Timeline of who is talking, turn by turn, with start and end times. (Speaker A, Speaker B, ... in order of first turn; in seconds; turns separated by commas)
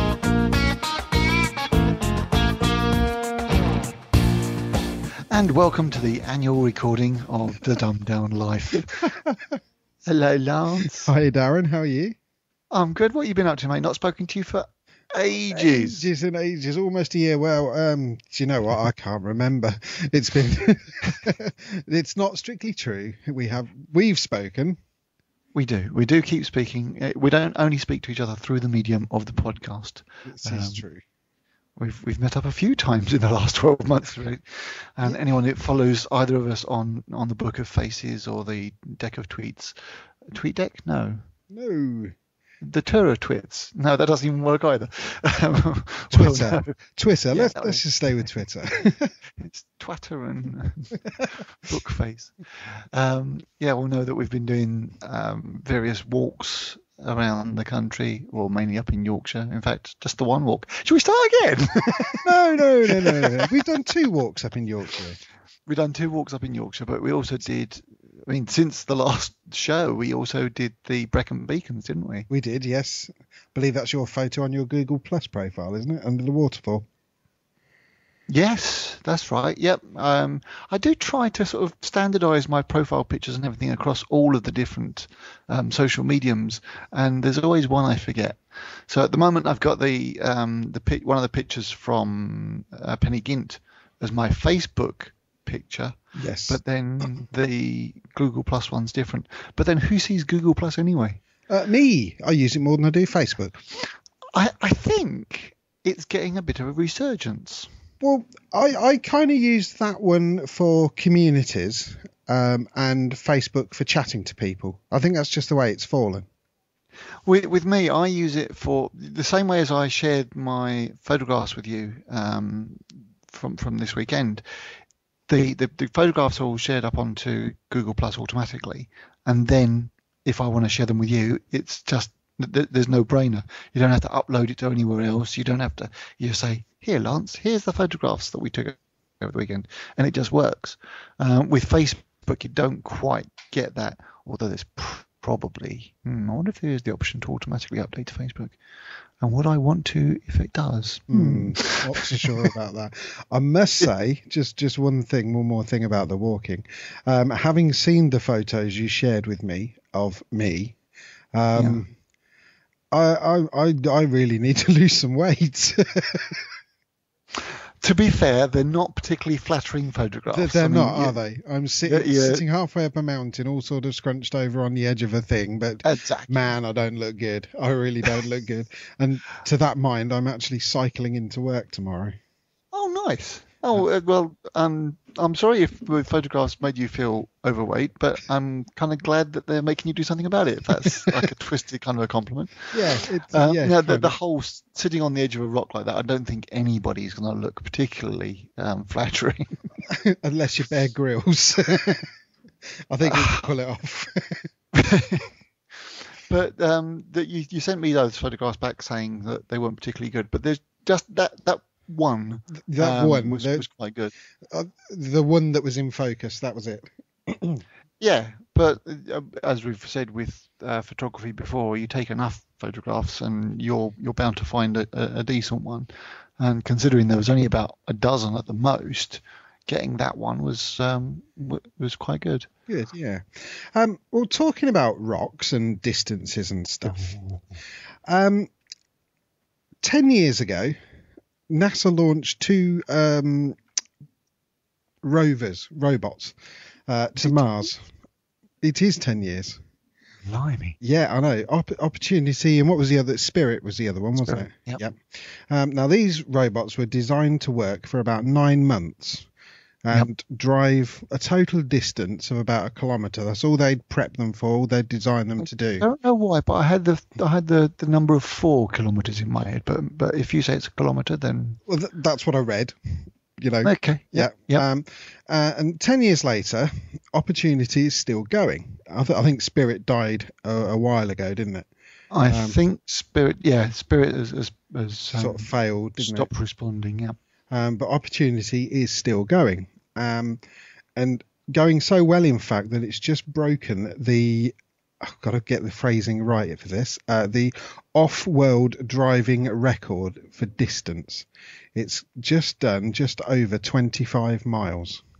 Speaker A: 5.3-9.1, Speaker B: 9.1-9.6, Speaker A: 10.0-11.1, Speaker B: 10.9-12.2, Speaker A: 12.7-16.1, Speaker B: 15.5-24.8, Speaker A: 25.5-30.8, Speaker B: 30.3-31.0, Speaker A: 31.8-39.8, Speaker A: 40.3-41.2, Speaker B: 41.5-42.1, Speaker A: 42.6-46.8, Speaker B: 46.1-49.1, Speaker A: 47.3-48.3, Speaker A: 49.4-62.2, Speaker B: 62.2-65.2, Speaker A: 62.9-63.5, Speaker A: 65.7-72.3, Speaker B: 72.3-76.9, Speaker A: 78.3-96.0, Speaker B: 96.2-97.1, Speaker A: 96.5-101.2, Speaker B: 101.5-103.7, Speaker A: 104.3-107.7, Speaker B: 108.0-116.2, Speaker A: 117.3-124.4, Speaker A: 125.3-148.6, Speaker A: 149.2-152.5, Speaker B: 151.1-160.8, Speaker B: 161.3-161.9, Speaker A: 161.5-161.8, Speaker B: 162.9-166.4, Speaker A: 167.8-171.2, Speaker B: 170.3-182.2, Speaker A: 171.8-172.4, Speaker A: 175.8-176.5, Speaker A: 182.7-192.7, Speaker B: 192.7-194.1, Speaker A: 193.3-199.7, Speaker B: 199.9-202.1, Speaker B: 202.9-204.5, Speaker A: 203.0-203.4, Speaker A: 204.8-205.3, Speaker A: 206.2-214.1, Speaker B: 212.5-213.7, Speaker B: 214.5-217.6, Speaker A: 218.0-232.5, Speaker B: 232.7-237.2, Speaker A: 236.8-237.4, Speaker B: 238.1-238.5, Speaker B: 239.8-240.8, Speaker B: 241.5-243.6, Speaker B: 245.0-246.3, Speaker B: 246.9-247.9, Speaker A: 247.2-247.7, Speaker B: 248.6-249.6, Speaker A: 250.2-250.8, Speaker B: 250.8-259.3, Speaker A: 254.2-254.8, Speaker B: 259.8-265.9, Speaker A: 265.4-271.6, Speaker B: 271.7-272.7, Speaker B: 273.4-281.7, Speaker A: 273.6-274.6, Speaker A: 282.1-287.2, Speaker B: 282.3-282.6, Speaker B: 285.1-286.3, Speaker B: 287.5-290.4, Speaker B: 291.0-305.0